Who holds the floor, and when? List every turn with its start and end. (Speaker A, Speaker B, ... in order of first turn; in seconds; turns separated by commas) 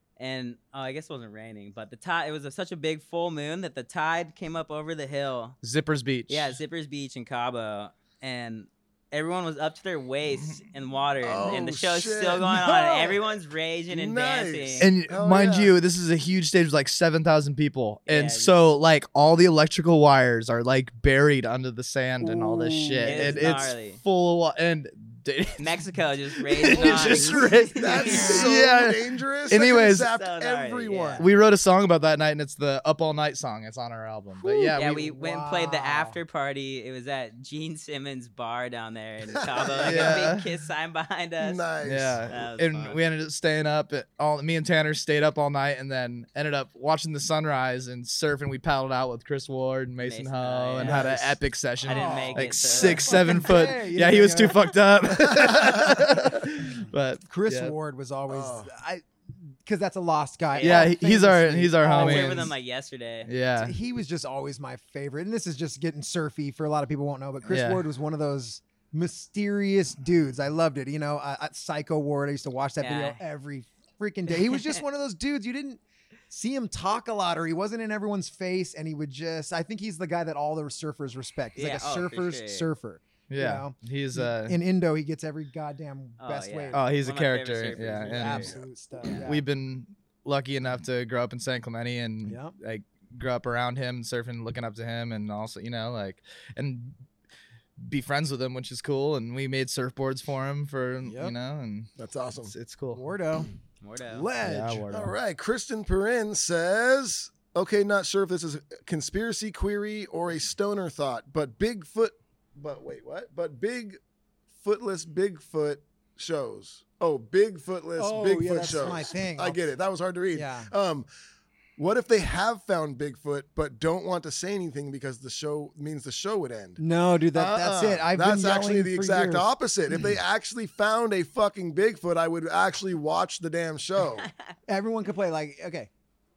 Speaker A: 0.2-5.6, Speaker B: 5.6-6.6, Speaker A: 6.3-14.9, Speaker B: 10.3-10.6, Speaker C: 11.2-13.3, Speaker C: 13.9-15.7, Speaker B: 14.8-30.1, Speaker A: 18.1-18.5, Speaker C: 22.3-23.4, Speaker D: 22.9-23.3, Speaker A: 23.1-24.0, Speaker A: 25.6-28.4, Speaker D: 26.7-28.5, Speaker C: 27.0-31.2, Speaker A: 30.0-31.3, Speaker B: 31.2-35.0, Speaker D: 34.4-36.2, Speaker A: 34.7-41.6, Speaker C: 39.3-40.2, Speaker B: 39.8-40.5, Speaker C: 41.4-42.2, Speaker B: 41.8-57.7, Speaker A: 42.3-43.0, Speaker A: 50.0-51.2, Speaker C: 50.8-51.3, Speaker A: 51.8-53.5, Speaker D: 51.8-54.7, Speaker D: 55.9-62.5, Speaker C: 58.3-58.7, Speaker A: 60.5-60.9, Speaker B: 60.6-62.5, Speaker A: 61.8-63.3, Speaker B: 63.2-63.7, Speaker D: 63.6-86.9, Speaker B: 67.5-67.8, Speaker A: 72.8-73.2, Speaker A: 81.5-82.7, Speaker B: 83.3-84.6, Speaker A: 86.2-89.2, Speaker B: 86.7-88.5, Speaker C: 87.7-88.6, Speaker D: 88.0-89.4, Speaker B: 89.2-97.0, Speaker D: 92.2-92.5, Speaker B: 97.8-101.9, Speaker D: 101.0-101.3, Speaker C: 102.0-102.5, Speaker B: 102.4-103.0, Speaker D: 102.9-103.5, Speaker A: 103.8-104.3, Speaker D: 104.1-104.8, Speaker B: 104.4-105.1, Speaker C: 104.9-114.0, Speaker C: 114.6-121.1, Speaker D: 118.0-119.6, Speaker D: 120.3-120.7, Speaker C: 121.8-126.8, Speaker D: 126.8-129.5, Speaker C: 127.3-134.3, Speaker D: 134.7-135.9